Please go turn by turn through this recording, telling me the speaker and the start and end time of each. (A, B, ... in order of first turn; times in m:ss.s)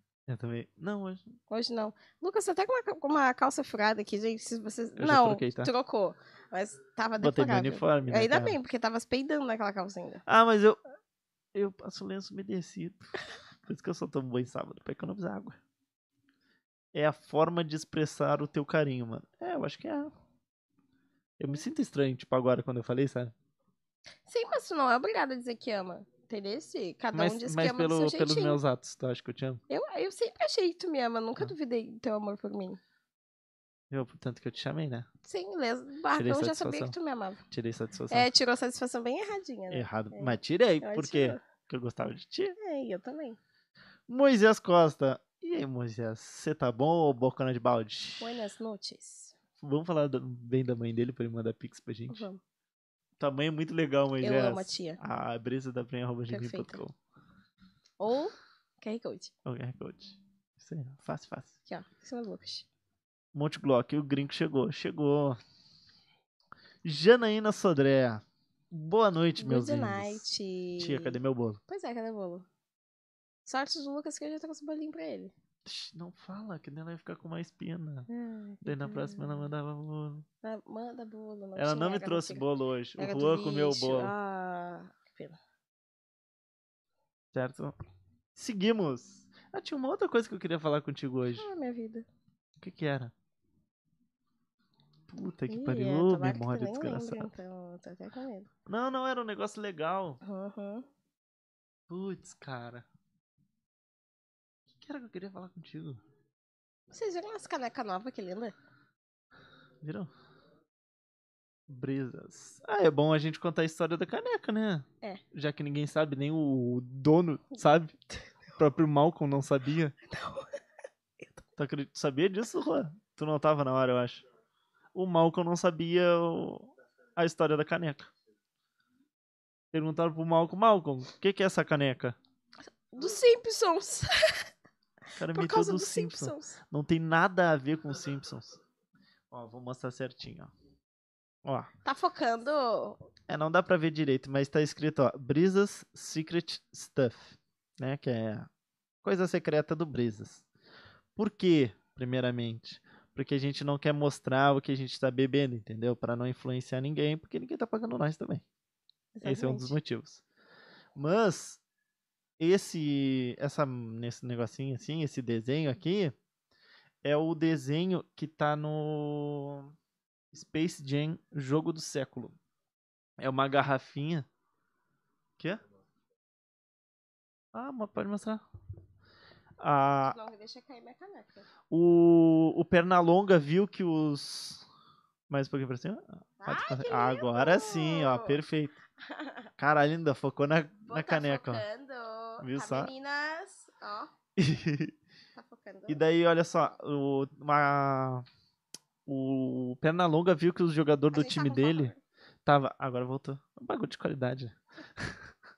0:00.3-0:01.2 A
0:01.5-0:10.2 B
0:05.0-0:05.7 A
0:07.2-0:08.6 A
0:10.3-0:10.8 A
0:11.5-0:15.6 A
0:16.9-0:20.1 A
0:21.4-0:23.3 A
0:24.3-0:28.6 B
0:27.1-0:29.6 A
0:29.7-0:32.8 B
0:33.9-0:35.1 A
0:35.2-0:37.4 B
0:36.2-0:36.9 A
0:37.5-0:38.3 A
0:38.1-0:41.4 B
0:39.7-0:42.6 A
0:42.6-0:43.4 B
0:44.1-0:48.4 A
0:48.2-0:49.4 B
0:49.6-0:52.3 A
0:52.1-0:52.4 B
0:53.2-0:57.0 A
0:54.2-0:55.0 B
0:56.3-0:56.8 B
0:58.0-0:59.3 B
0:59.5-1:01.6 A
1:01.7-1:02.7 B
1:03.3-1:05.4 A
1:06.8-1:11.6 A
1:09.4-1:12.5 B
1:13.4-1:15.3 B
1:15.6-1:18.1 A
1:18.1-1:19.5 B
1:18.6-1:20.2 A
1:20.4-1:22.5 B
1:21.6-1:24.1 A
1:23.0-1:25.4 B
1:27.3-1:27.8 A
1:28.4-1:31.5 A
1:31.3-1:32.1 B
1:32.6-1:33.1 A
1:35.1-1:37.3 A
1:35.5-1:38.5 B
1:38.7-1:40.2 A
1:40.2-1:40.9 B
1:41.9-1:42.8 A
1:44.7-1:46.0 A
1:46.9-1:48.6 B
1:49.8-1:50.1 A
1:51.7-1:58.0 A
1:58.6-2:00.0 A
2:00.1-2:00.6 B
2:01.6-2:04.2 A
2:05.0-2:08.1 A
2:09.7-2:12.2 A
2:12.9-2:14.5 B
2:15.2-2:18.6 A
2:15.3-2:16.6 B
2:19.3-2:20.5 A
2:21.4-2:21.7 A
2:21.8-2:23.1 B
2:23.3-2:28.5 A
2:29.0-2:30.4 A
2:31.2-2:38.4 A
2:39.2-2:39.8 B
2:39.2-2:40.2 A
2:41.0-2:41.6 A
2:42.4-2:46.1 A
2:47.0-2:49.7 A
2:50.3-2:52.4 A
2:53.2-2:54.3 A
2:57.5-2:58.4 A
2:59.6-3:00.2 A
3:00.0-3:01.5 B
3:01.7-3:04.7 A
3:05.3-3:08.8 A
3:06.4-3:08.4 B
3:09.0-3:09.5 B
3:09.6-3:11.6 A
3:10.9-3:14.1 B
3:12.4-3:12.9 A
3:14.4-3:15.0 A
3:15.4-3:16.0 B
3:15.9-3:18.3 A
3:19.1-3:21.9 A
3:21.1-3:22.0 B
3:22.4-3:25.2 A